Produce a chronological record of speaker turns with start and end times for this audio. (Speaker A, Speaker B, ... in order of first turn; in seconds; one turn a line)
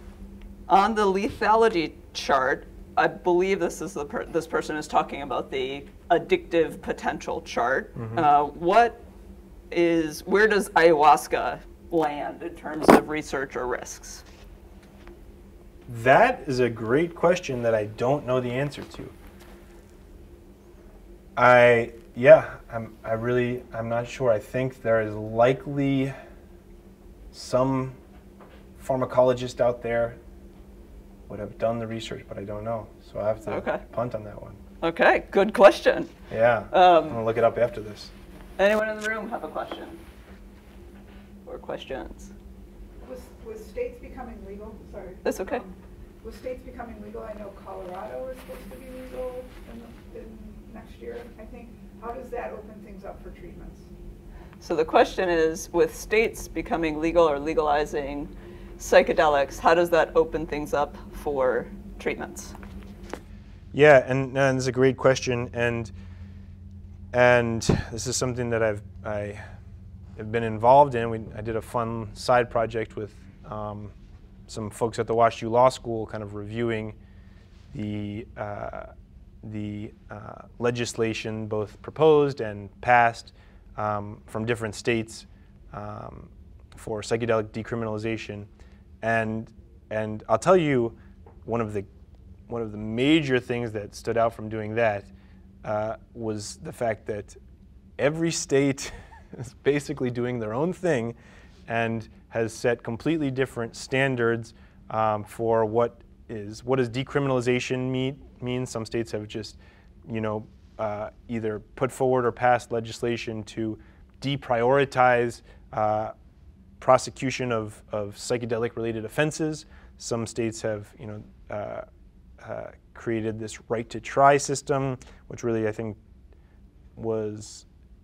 Speaker A: 0.7-9.0
Speaker B: 8.0-8.3
Speaker A: 9.7-14.2
Speaker B: 15.9-19.1
Speaker B: 21.4-26.2
Speaker B: 27.3-28.0
Speaker B: 28.8-30.2
Speaker B: 31.3-34.6
Speaker A: 33.5-33.8
Speaker A: 34.8-36.1
Speaker B: 36.3-38.1
Speaker A: 36.7-37.2
Speaker A: 38.6-40.0
Speaker A: 41.5-42.3
Speaker C: 43.0-53.9
Speaker A: 45.2-45.6
Speaker A: 54.6-62.6
Speaker B: 63.7-65.9
Speaker B: 67.1-69.5
Speaker B: 70.2-73.9
Speaker B: 74.5-77.0
Speaker B: 77.7-78.9
Speaker B: 79.4-88.5
Speaker B: 89.0-91.9
Speaker B: 92.5-95.1
Speaker B: 95.6-97.4
Speaker B: 98.0-101.2
Speaker B: 101.7-116.1
Speaker B: 116.8-121.9
Speaker B: 122.4-126.0
Speaker B: 127.0-127.7